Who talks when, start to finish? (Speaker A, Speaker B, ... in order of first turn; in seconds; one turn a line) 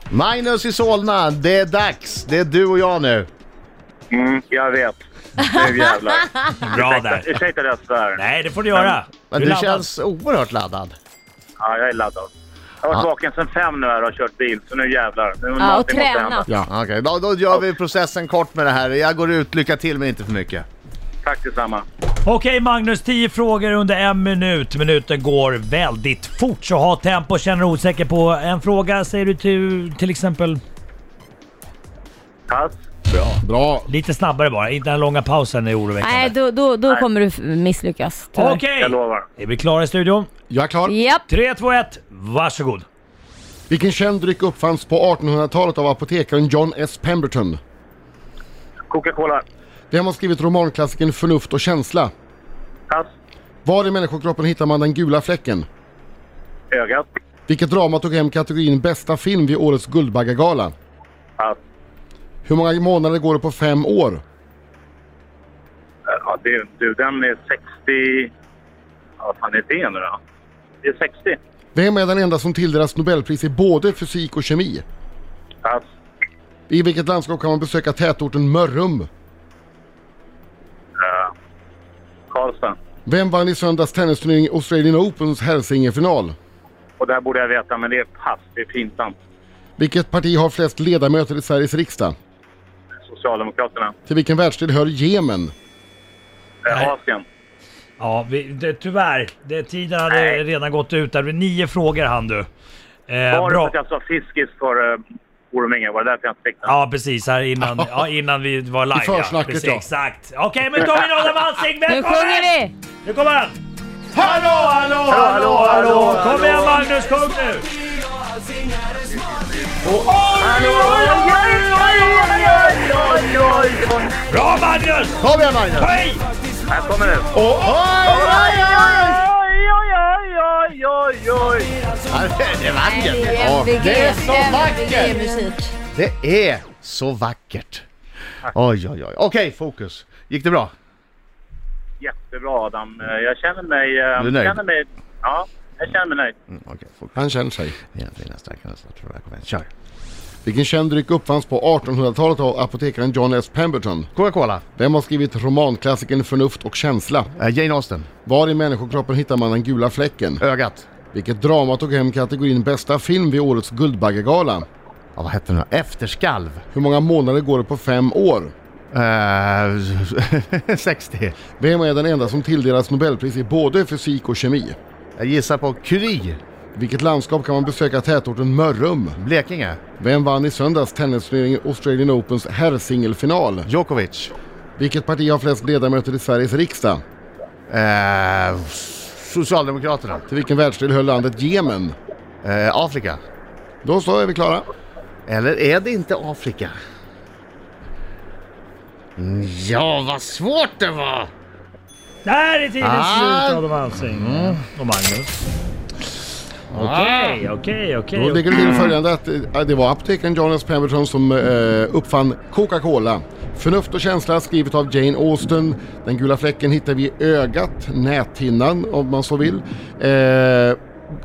Speaker A: 0.1-3.3
Speaker B: 4.1-8.2
Speaker C: 5.4-6.1
Speaker D: 6.6-7.4
Speaker D: 8.2-9.9
Speaker A: 9.3-11.0
Speaker B: 11.6-12.3
Speaker B: 12.8-16.5
Speaker C: 15.6-16.5
Speaker A: 16.7-20.7
Speaker B: 21.2-21.8
Speaker D: 22.2-30.6
Speaker B: 32.5-32.7
Speaker D: 33.1-36.3
Speaker E: 33.4-33.9
Speaker C: 36.0-38.6
Speaker D: 38.3-40.3
Speaker B: 38.8-39.2
Speaker E: 40.5-41.0
Speaker C: 40.9-41.3
Speaker D: 41.3-42.9
Speaker E: 43.7-47.6
Speaker B: 48.9-49.4
Speaker E: 49.9-52.1
Speaker E: 53.6-55.7
Speaker B: 56.7-57.1
Speaker E: 57.5-60.7
Speaker E: 62.5-64.2
Speaker B: 66.1-68.3
Speaker B: 69.2-70.2
Speaker B: 70.8-71.4
Speaker E: 71.8-74.8
Speaker E: 76.7-79.1
Speaker B: 81.0-81.3
Speaker B: 82.3-82.8
Speaker E: 83.1-86.4
Speaker B: 87.0-89.1
Speaker E: 89.8-92.2
Speaker B: 93.1-93.9
Speaker E: 94.1-95.5
Speaker B: 96.7-97.2
Speaker D: 98.0-102.5
Speaker B: 100.1-100.4
Speaker D: 103.1-103.7
Speaker B: 103.3-106.7
Speaker D: 106.7-113.6
Speaker E: 108.9-109.9
Speaker C: 111.9-112.7
Speaker A: 114.4-116.1
Speaker D: 114.5-117.7
Speaker B: 115.1-116.8
Speaker B: 119.1-119.8
Speaker D: 120.2-121.1
Speaker B: 120.3-124.1
Speaker D: 124.3-125.2
Speaker A: 125.2-126.0
Speaker D: 125.8-126.2
Speaker B: 126.7-127.3
Speaker A: 127.4-129.2
Speaker B: 128.0-131.7
Speaker A: 132.1-135.4
Speaker C: 132.7-135.8
Speaker A: 135.9-137.9
Speaker A: 138.5-140.7
Speaker B: 142.0-146.3
Speaker A: 144.2-144.6
Speaker A: 146.5-147.2
Speaker E: 147.2-147.8
Speaker A: 147.8-149.7
Speaker E: 150.4-154.1
Speaker A: 154.2-154.6
Speaker E: 154.8-157.3
Speaker A: 157.3-158.1
Speaker E: 158.2-160.4
Speaker A: 160.4-160.9
Speaker E: 161.1-164.7
Speaker A: 165.2-166.6
Speaker E: 166.7-168.5
Speaker A: 168.9-171.4
Speaker E: 171.6-174.8
Speaker A: 175.2-176.4
Speaker E: 176.8-179.2
Speaker A: 179.2-179.8
Speaker E: 180.0-183.7
Speaker A: 183.7-184.3
Speaker E: 184.8-187.0
Speaker A: 187.7-190.2
Speaker E: 190.3-191.9
Speaker A: 192.4-193.2
Speaker E: 193.8-194.7
Speaker A: 195.3-196.8
Speaker A: 199.2-201.3
Speaker D: 202.2-205.4
Speaker A: 202.8-204.6
Speaker A: 206.7-207.4
Speaker D: 206.7-208.5
Speaker E: 208.2-220.8
Speaker B: 208.5-208.9